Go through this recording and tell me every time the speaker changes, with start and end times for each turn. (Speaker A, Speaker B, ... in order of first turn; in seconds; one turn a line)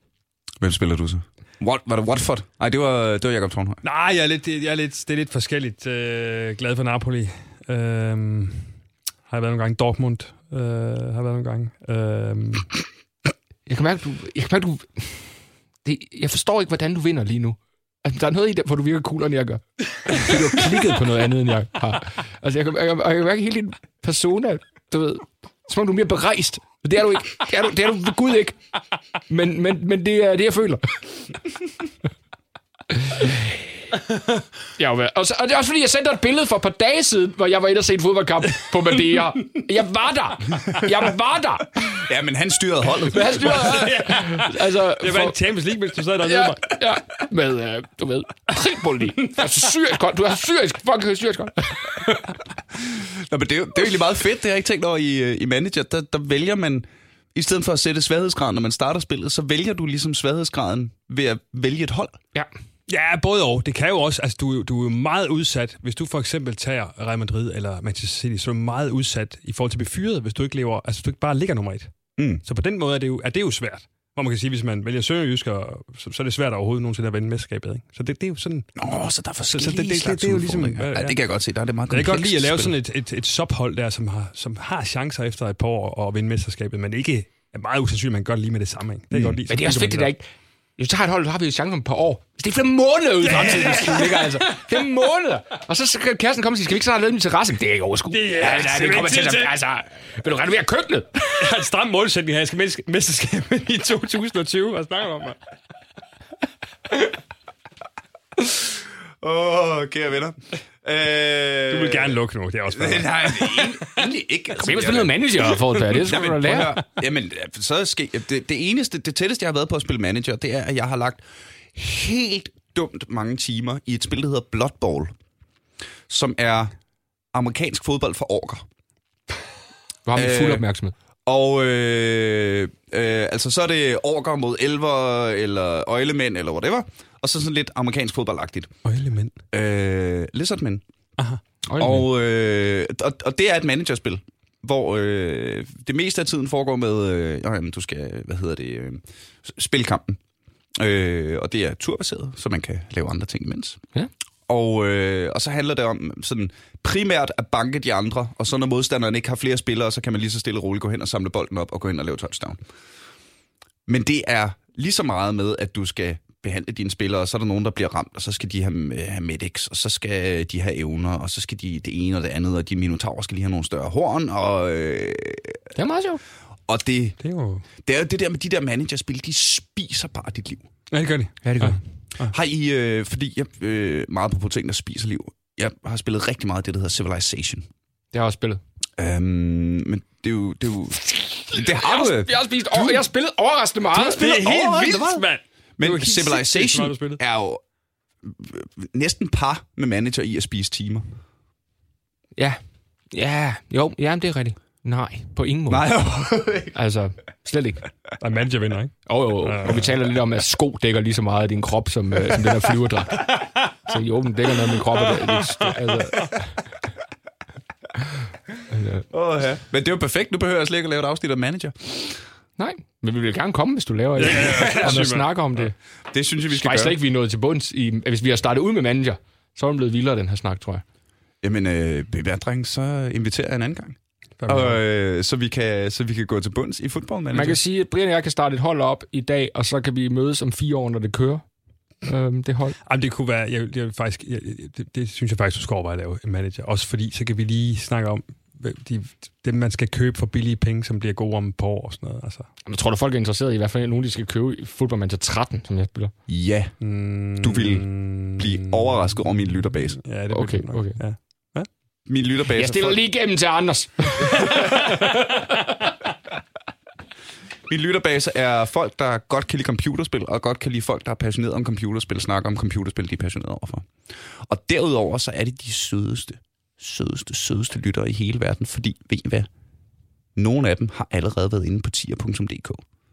Speaker A: 0.6-3.8
Speaker B: 3.8-8.8
Speaker B: 9.3-12.7
Speaker C: 13.7-28.6
Speaker B: 20.3-20.5
Speaker C: 29.3-31.2
Speaker C: 32.9-33.4
Speaker C: 34.8-41.9
Speaker A: 41.8-43.9
Speaker C: 43.1-45.4
Speaker B: 43.5-46.8
Speaker C: 46.2-52.3
Speaker A: 52.7-62.2
Speaker B: 62.9-78.7
Speaker A: 72.2-72.4
Speaker A: 78.8-82.8
Speaker B: 79.5-81.2
Speaker B: 81.9-90.1
Speaker A: 89.1-89.4
Speaker C: 89.5-90.3
Speaker C: 90.8-101.6
Speaker B: 93.2-94.5
Speaker B: 98.1-99.5
Speaker B: 101.4-105.4
Speaker A: 109.2-112.2
Speaker B: 111.7-113.9
Speaker A: 112.7-115.3
Speaker C: 114.6-116.7
Speaker A: 115.9-125.1
Speaker A: 126.1-126.7
Speaker A: 127.3-128.6
Speaker C: 130.1-130.9
Speaker A: 130.1-130.6
Speaker A: 131.2-138.7
Speaker B: 138.8-139.3
Speaker A: 139.5-140.8
Speaker C: 141.7-142.1
Speaker A: 141.8-150.2
Speaker A: 150.8-153.8
Speaker A: 154.5-162.6
Speaker A: 163.9-175.7
Speaker C: 175.7-176.2
Speaker A: 176.7-177.2
Speaker B: 177.2-177.6
Speaker A: 177.8-180.7
Speaker B: 180.9-182.3
Speaker C: 181.4-181.8
Speaker A: 182.3-187.6
Speaker C: 188.1-188.6
Speaker A: 189.0-193.0
Speaker C: 191.5-194.2
Speaker A: 193.9-195.2
Speaker B: 194.2-197.2
Speaker A: 195.8-197.6
Speaker A: 198.2-201.2
Speaker C: 203.1-205.9
Speaker A: 205.7-206.8
Speaker C: 206.7-207.9
Speaker B: 208.2-209.9
Speaker C: 209.1-216.6
Speaker C: 218.7-219.0
Speaker A: 219.1-222.2
Speaker C: 222.6-225.8
Speaker B: 224.2-225.3
Speaker A: 224.3-225.0
Speaker A: 226.1-226.9
Speaker C: 226.5-230.8
Speaker A: 231.4-237.6
Speaker B: 234.4-234.8
Speaker C: 237.3-241.5
Speaker C: 242.0-242.8
Speaker B: 242.8-252.5
Speaker C: 252.6-256.1
Speaker A: 256.3-256.8
Speaker B: 256.8-259.2
Speaker A: 257.3-260.0
Speaker B: 260.0-261.7
Speaker C: 260.3-261.0
Speaker A: 262.1-263.0
Speaker C: 262.5-265.5
Speaker A: 264.4-265.0
Speaker A: 267.7-279.5
Speaker A: 280.4-282.8